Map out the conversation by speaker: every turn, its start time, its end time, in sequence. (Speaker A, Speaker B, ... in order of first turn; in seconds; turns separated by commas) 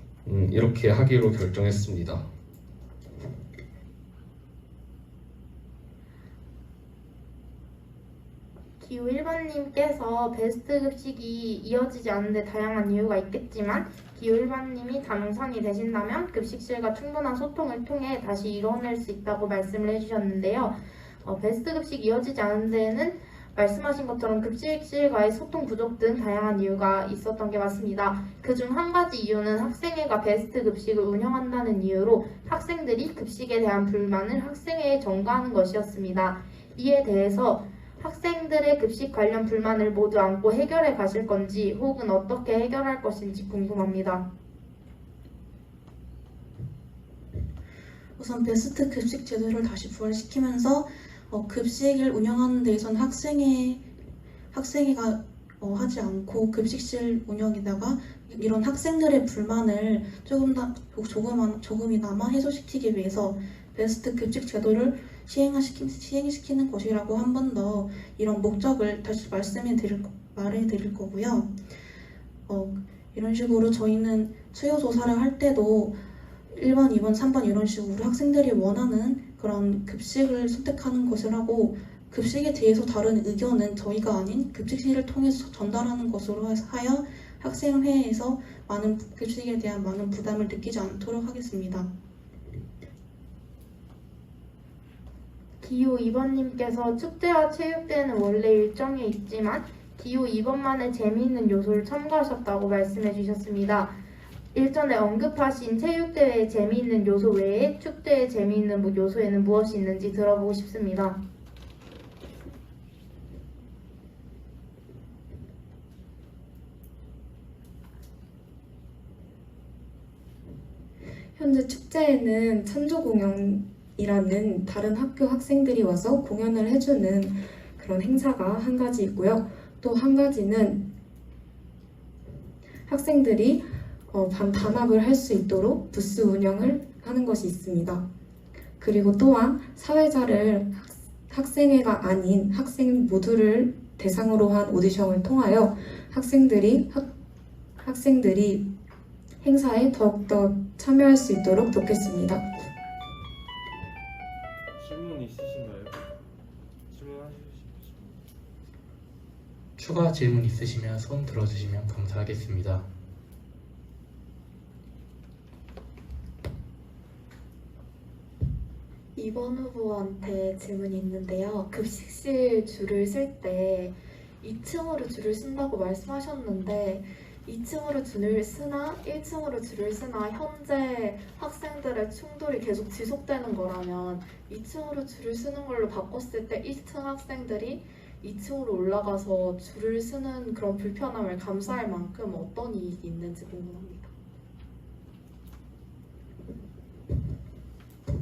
Speaker A: 0.2-2.2, Speaker B: 8.8-44.3, Speaker C: 48.2-53.8, Speaker C: 54.5-71.5, Speaker C: 72.5-76.0, Speaker C: 76.5-91.9, Speaker B: 95.6-104.0, Speaker B: 104.5-111.2, Speaker D: 121.4-130.8, Speaker D: 132.9-138.1, Speaker D: 138.8-140.7, Speaker D: 141.3-147.1, Speaker D: 147.8-148.6, Speaker D: 149.4-152.5, Speaker E: 154.8-156.0, Speaker E: 156.9-158.3, Speaker F: 159.8-162.9, Speaker G: 169.2-194.1